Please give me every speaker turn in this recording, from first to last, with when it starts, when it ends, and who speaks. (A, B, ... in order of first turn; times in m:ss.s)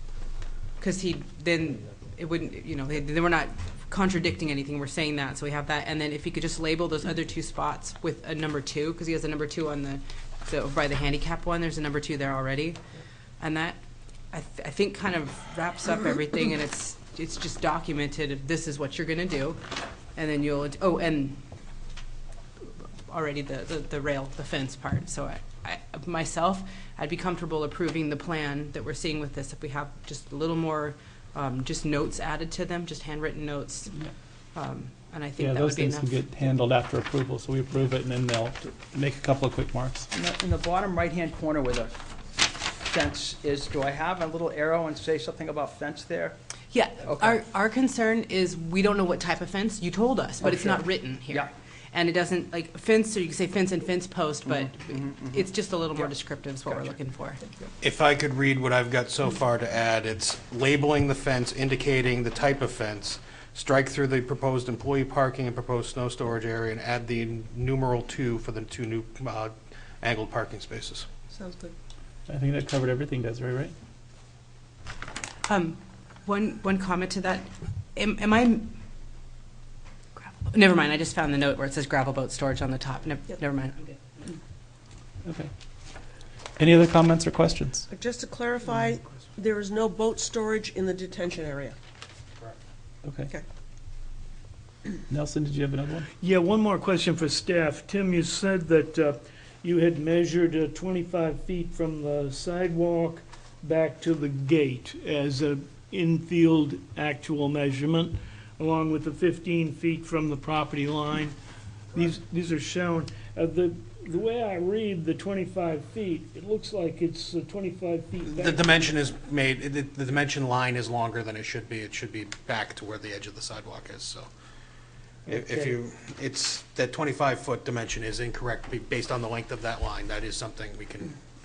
0:00.8-0:12.8 A
0:13.4-0:13.8 A
0:14.3-0:19.6 A
0:20.1-0:21.4 A
0:23.0-0:33.9 A
0:34.5-0:36.1 A
0:35.4-0:40.1 B
0:40.1-0:46.4 C
0:46.7-0:57.4 A
0:47.0-0:47.4 C
0:50.4-0:51.5 C
0:54.5-0:55.5 C
0:57.8-1:11.1 D
1:11.3-1:11.7 E
1:12.3-1:13.7 B
1:15.5-1:18.7 A
1:20.2-1:23.9 A
1:25.2-1:25.5 B
1:26.6-1:27.8 B
1:27.9-1:31.8 E
1:33.0-1:33.3 B
1:35.1-1:36.1 B
1:36.2-1:51.3 F
1:51.9-1:58.7 F
1:58.3-2:04.3 D
2:05.3-2:05.8 F
2:05.3-2:11.1 D